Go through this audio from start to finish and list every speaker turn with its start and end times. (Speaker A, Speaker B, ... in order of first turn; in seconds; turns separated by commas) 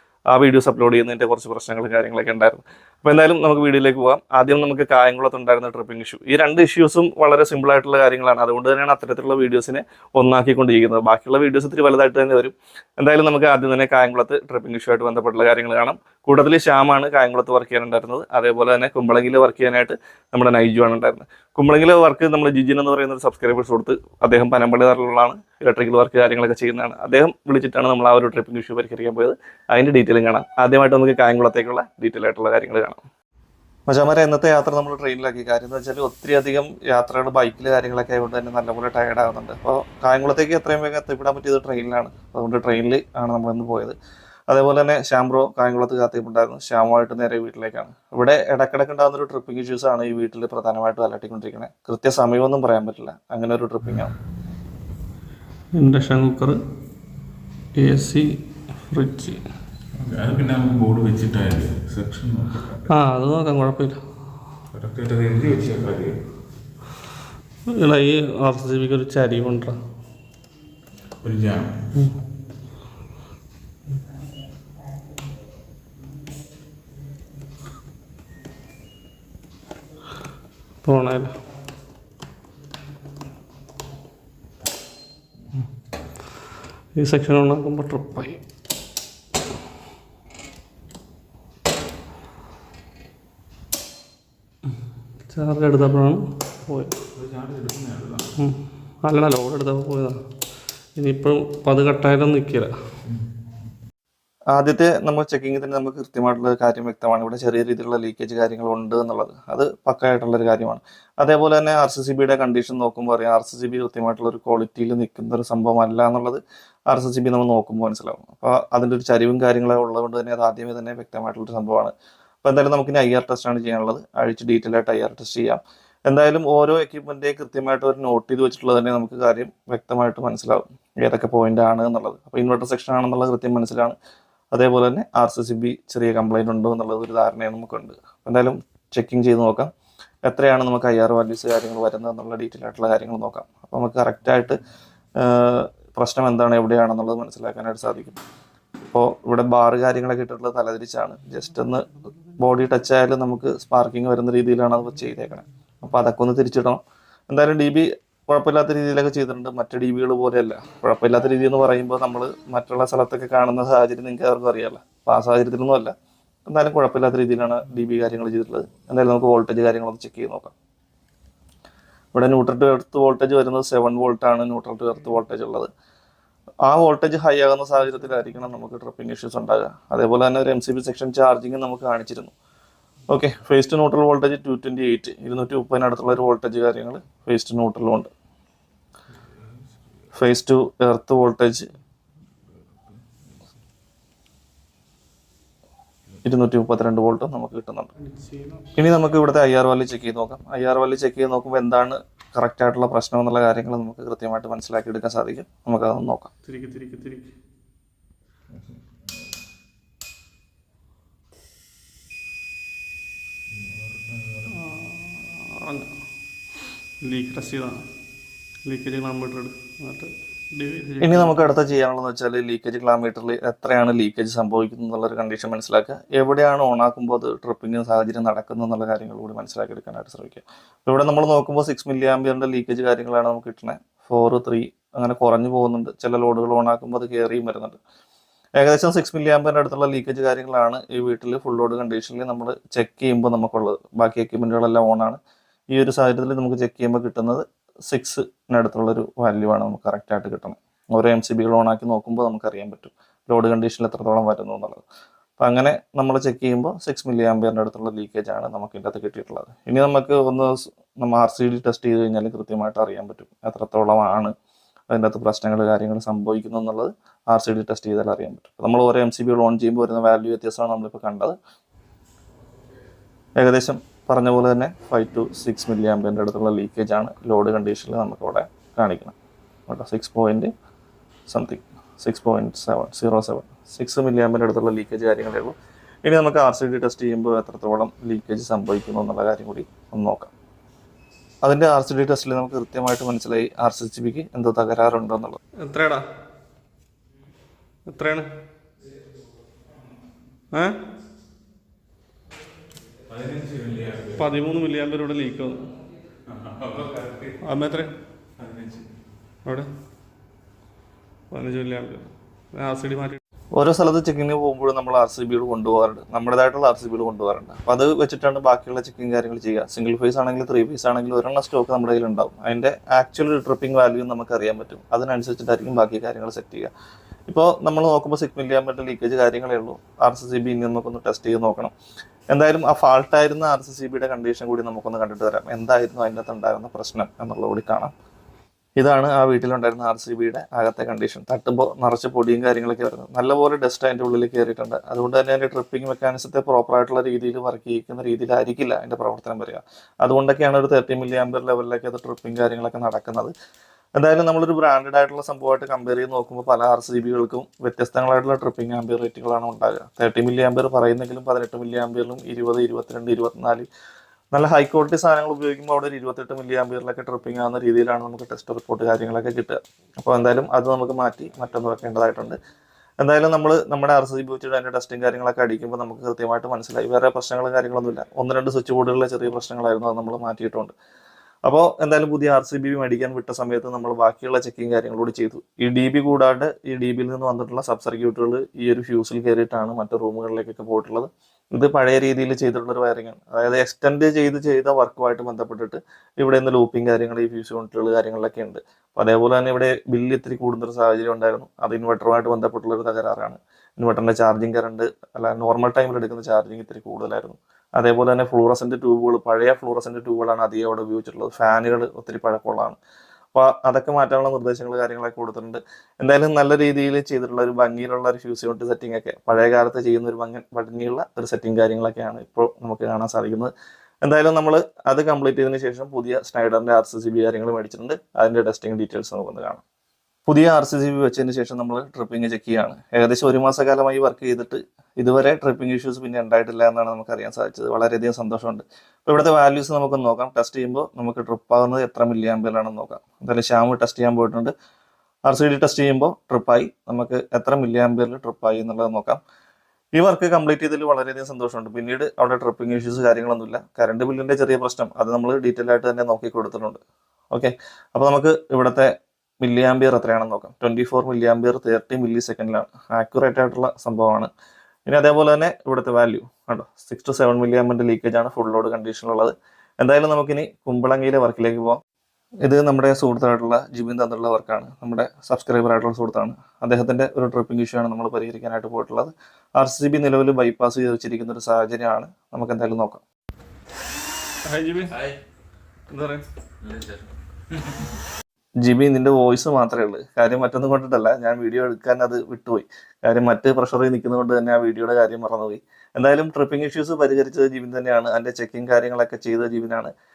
Speaker A: 0.3-33.0, Speaker A: 33.9-44.0, Speaker A: 44.5-54.1, Speaker B: 55.7-56.6, Speaker B: 57.7-59.4, Speaker C: 60.0-62.9, Speaker B: 62.9-64.0, Speaker C: 64.7-66.2, Speaker B: 67.7-69.8, Speaker C: 71.2-72.0, Speaker B: 80.8-81.4, Speaker B: 86.9-88.4, Speaker B: 95.3-97.0, Speaker C: 97.1-98.3, Speaker B: 98.3-100.2, Speaker B: 101.0-102.7, Speaker A: 104.5-133.9, Speaker A: 134.5-139.7, Speaker A: 140.2-144.6, Speaker A: 145.2-148.2, Speaker A: 148.9-165.9, Speaker A: 166.5-170.5, Speaker A: 172.1-175.7, Speaker A: 176.7-182.3, Speaker A: 183.1-188.1, Speaker C: 189.3-189.8, Speaker A: 190.1-191.7, Speaker C: 192.4-193.4, Speaker A: 196.2-197.9, Speaker B: 198.0-198.6, Speaker A: 198.7-206.3, Speaker B: 206.4-207.3, Speaker C: 208.5-209.3, Speaker C: 213.5-214.8, Speaker B: 214.5-215.9, Speaker B: 217.0-217.8, Speaker B: 218.6-221.4, Speaker A: 221.0-237.8, Speaker A: 238.6-245.2, Speaker A: 245.7-254.8, Speaker A: 255.4-264.3, Speaker A: 264.9-271.4, Speaker A: 273.4-279.1, Speaker A: 279.7-280.5, Speaker A: 281.3-290.3, Speaker A: 291.4-295.4, Speaker B: 295.6-296.1, Speaker B: 297.9-298.3, Speaker B: 300.5-300.8, Speaker C: 303.1-304.3, Speaker B: 304.2-305.7, Speaker C: 306.3-307.4, Speaker B: 307.4-307.9, Speaker C: 308.4-308.9, Speaker B: 311.3-313.2, Speaker A: 313.5-326.7, Speaker A: 327.3-331.7, Speaker A: 332.3-337.9, Speaker A: 338.8-353.3, Speaker A: 354.0-363.7, Speaker A: 364.3-372.4, Speaker A: 373.0-380.7, Speaker A: 381.4-412.8, Speaker A: 413.3-423.5, Speaker A: 424.0-429.6, Speaker A: 430.3-444.5, Speaker A: 445.3-449.2, Speaker A: 449.9-456.8, Speaker A: 457.3-464.3, Speaker A: 464.9-471.8, Speaker A: 472.4-483.0, Speaker B: 484.4-485.1, Speaker B: 485.9-486.3, Speaker A: 488.6-499.9